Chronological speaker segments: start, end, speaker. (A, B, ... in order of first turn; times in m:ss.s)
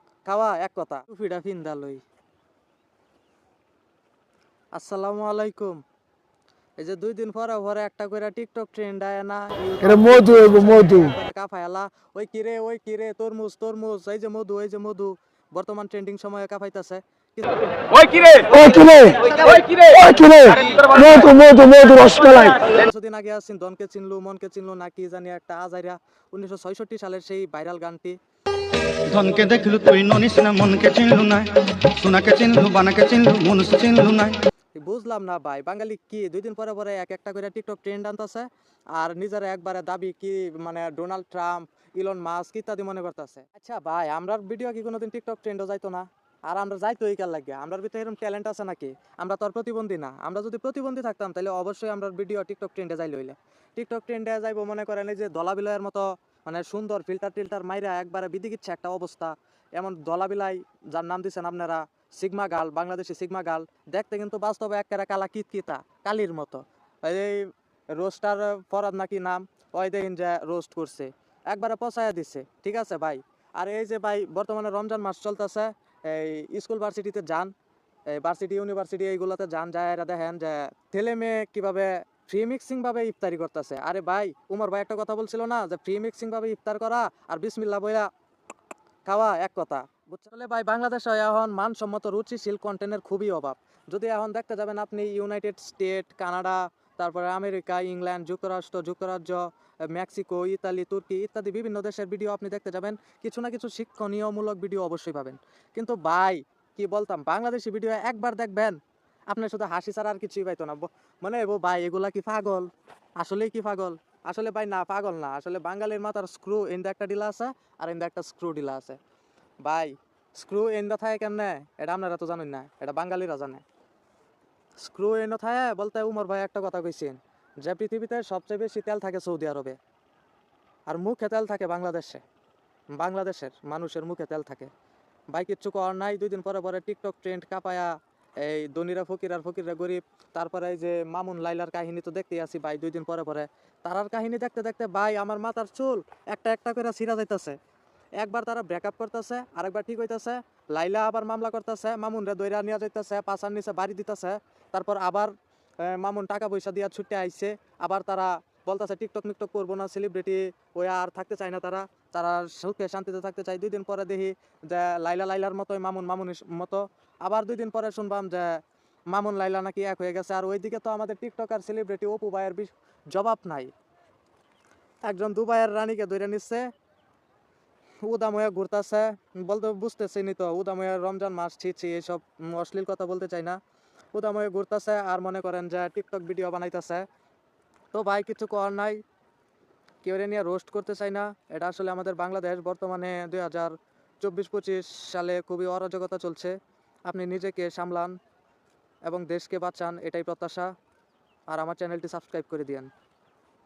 0:00.2-0:02.0 A
0:04.7-0:05.8 A
0:06.8-0:18.4 A
0:19.3-0:20.0 B
0:20.0-0:20.6 C
0:20.7-0:21.1 B
0:21.2-0:22.6 C
0:22.6-0:28.2 A
0:29.0-0:34.4 B
0:34.8-1:17.5 A
1:18.1-1:28.1 A
1:29.1-1:48.8 A
1:49.3-1:59.0 A
1:59.6-2:03.6 A
2:04.8-2:09.8 A
2:10.9-2:12.2 A
2:12.9-2:14.7 A
2:15.3-2:27.6 A
2:28.2-2:53.7 A
2:55.1-2:56.7 A
2:58.0-3:03.6 A
3:04.2-3:07.1 A
3:07.9-3:09.0 A
3:10.0-3:16.6 A
3:17.1-3:18.2 A
3:19.1-3:20.7 A
3:21.5-3:22.9 A